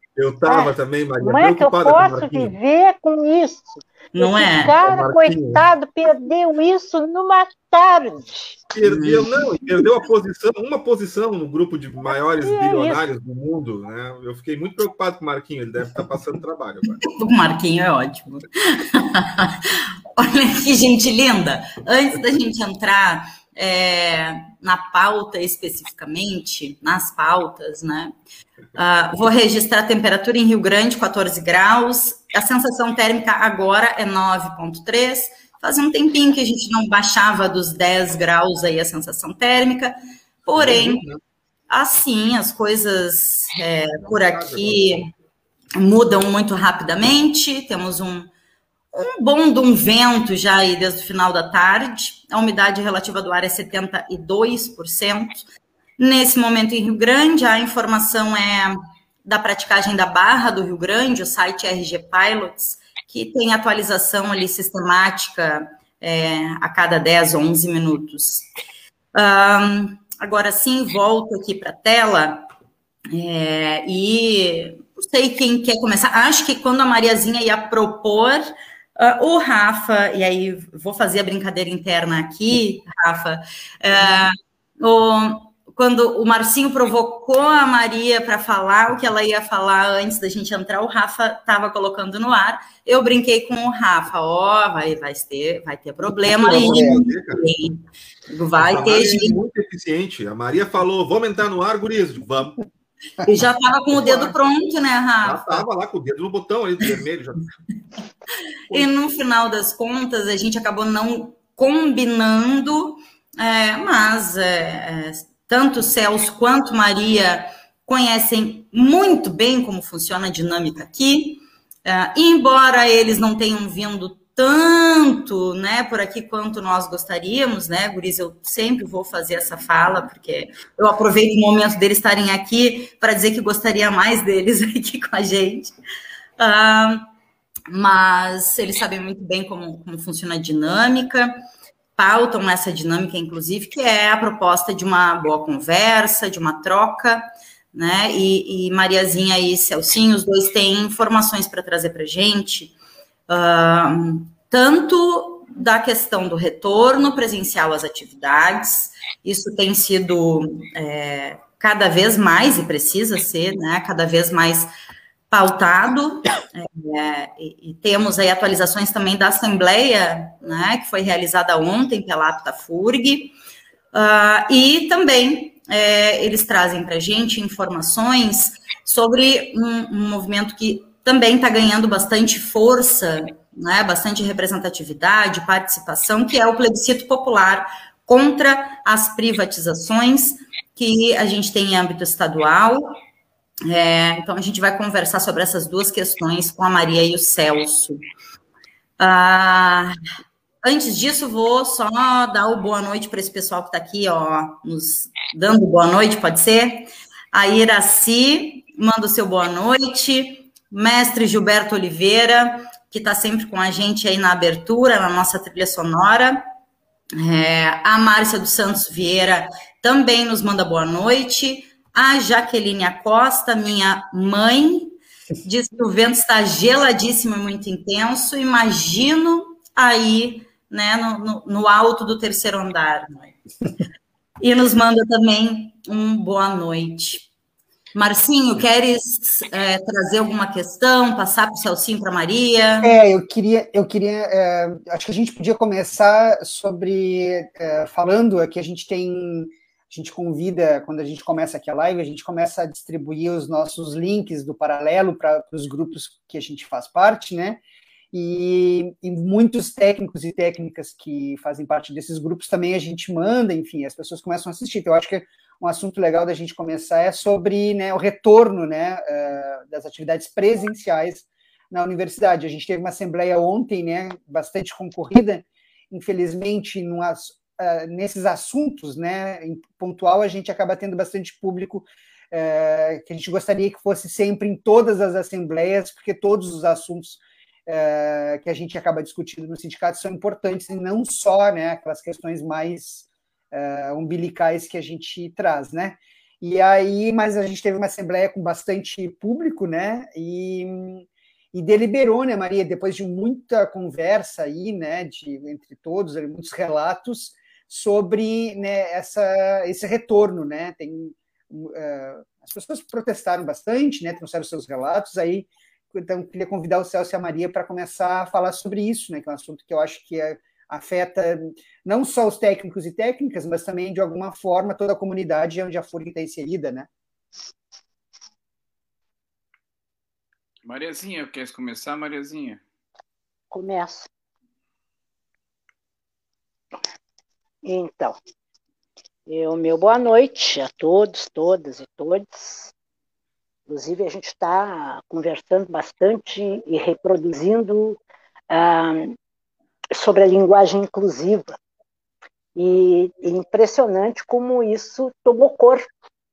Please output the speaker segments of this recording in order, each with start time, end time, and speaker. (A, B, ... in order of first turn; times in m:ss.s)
0:00.2-0:02.5 A
0:00.4-0:08.6 B
0:04.1-0:04.8 C
0:04.8-0:05.6 A
0:08.7-0:17.0 A
0:08.8-0:09.3 C
0:12.4-0:13.0 B
0:17.0-0:28.1 C
0:28.7-0:41.0 C
0:40.5-0:41.2 A
0:41.7-0:45.0 C
0:44.0-0:44.9 A
0:45.8-0:48.3 C
0:48.9-0:55.4 C
0:56.0-1:08.5 C
1:09.1-1:12.4 C
1:13.1-1:39.4 C
1:36.2-1:37.4 A
1:36.4-1:37.0 D
1:38.6-1:42.6 A
1:43.2-1:45.6 C
1:43.9-1:44.3 A
1:45.2-1:47.4 A
1:48.7-2:15.7 C
2:16.4-2:17.0 C
2:17.7-2:21.3 C
2:22.0-2:32.7 C
2:33.3-2:44.7 C
2:45.3-2:53.3 C
2:53.9-3:13.0 C
3:13.7-3:18.0 C
3:19.0-3:19.9 C
3:20.6-3:36.4 C
3:37.2-3:53.3 C
3:54.4-3:57.3 C
3:57.9-4:02.9 C
4:02.8-4:17.6 D
4:18.1-5:26.9 D
5:30.6-5:32.6 E
5:33.5-5:34.1 B
5:37.6-5:38.2 B
5:39.3-5:42.7 B
5:43.7-5:48.0 B
5:48.5-5:49.2 B
5:49.9-5:51.6 B
5:52.6-5:55.9 B